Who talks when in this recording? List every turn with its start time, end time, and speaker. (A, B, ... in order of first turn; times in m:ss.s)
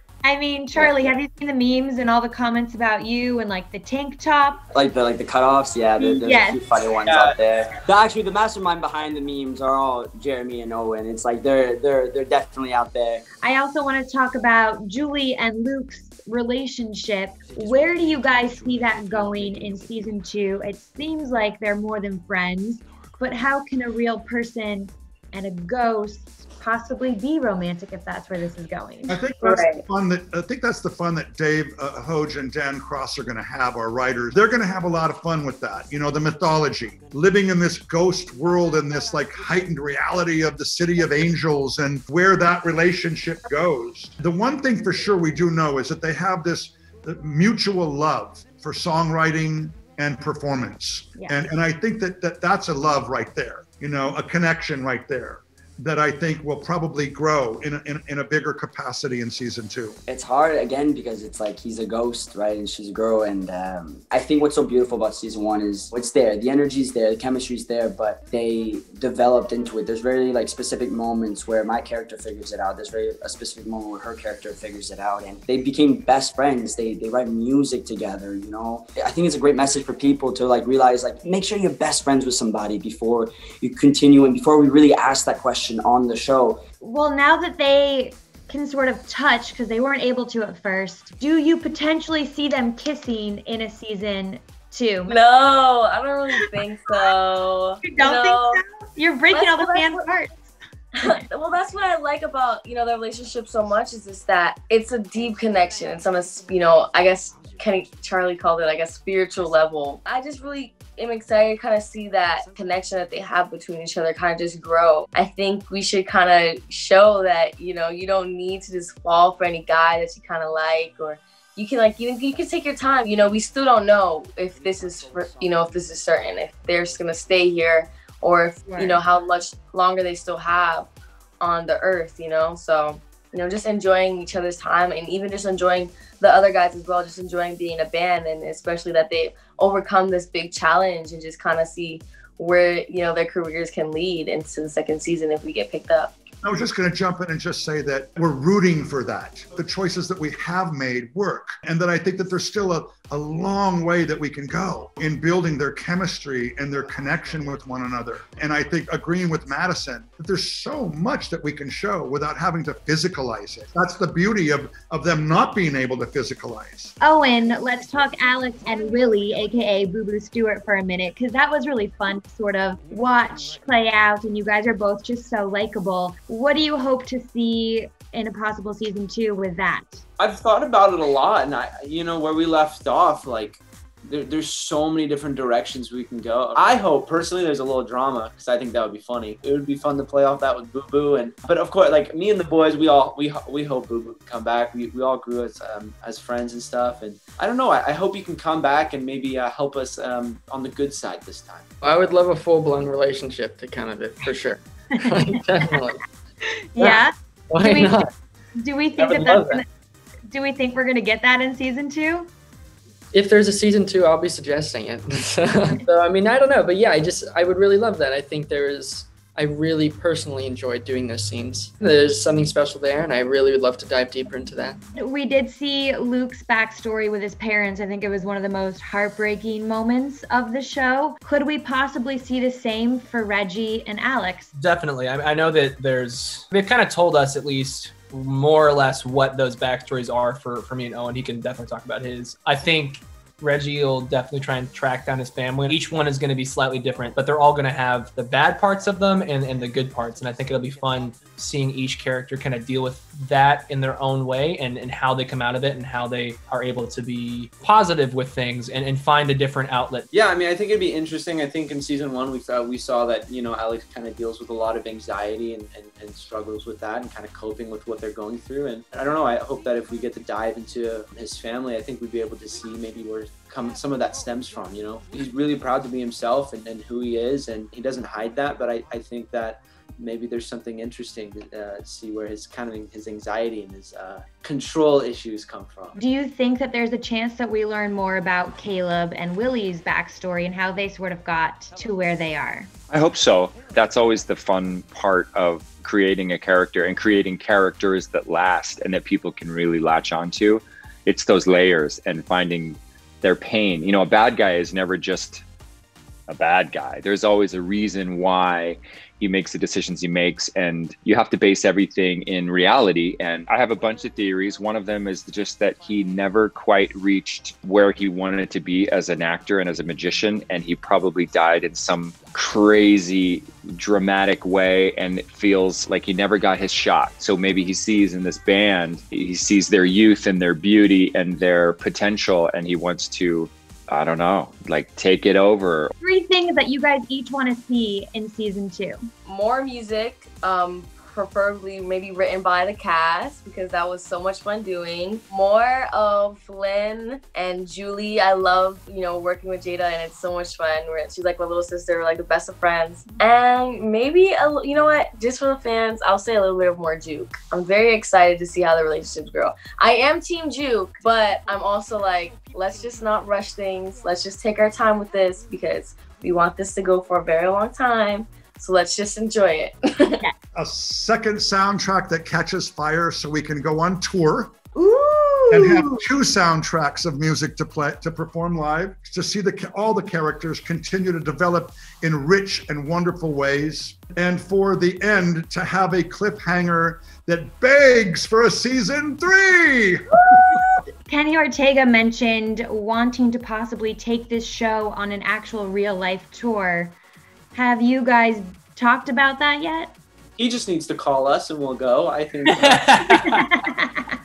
0:00.2-0:04.6 A
0:00.7-0:01.1 B
0:04.7-0:13.2 B
0:06.0-0:06.6 A
0:07.0-0:07.4 C
0:13.4-0:29.2 A
0:29.1-1:00.0 D
0:29.4-0:29.8 E
0:51.2-0:51.5 A
1:00.1-1:26.6 B
1:26.8-1:35.2 A
1:35.1-1:38.6 E
1:37.8-1:40.3 A
1:39.3-1:40.0 E
1:41.0-2:26.1 E
2:08.6-2:09.0 A
2:26.4-2:46.9 D
2:47.0-3:00.0 A
3:00.2-3:21.6 C
3:21.8-3:26.0 F
3:25.0-3:25.4 A
3:26.7-3:28.0 A
3:26.8-3:28.1 F
3:28.6-3:29.6 A
3:29.0-3:29.6 F
3:30.3-3:32.3 A
3:33.1-3:44.8 F
3:45.0-3:54.5 A
3:54.5-4:20.0 G
4:20.1-4:46.0 C
4:46.0-4:52.7 A
4:52.9-5:05.4 H
5:06.3-5:35.9 H
5:36.0-5:39.0 A
5:39.2-6:10.2 E
6:10.5-6:14.5 D
6:14.7-6:16.0 A
6:15.5-6:30.0 D
6:30.3-6:37.0 A
6:37.5-6:39.9 A
6:40.4-6:43.0 C
6:42.5-6:43.4 G
6:43.2-6:44.1 A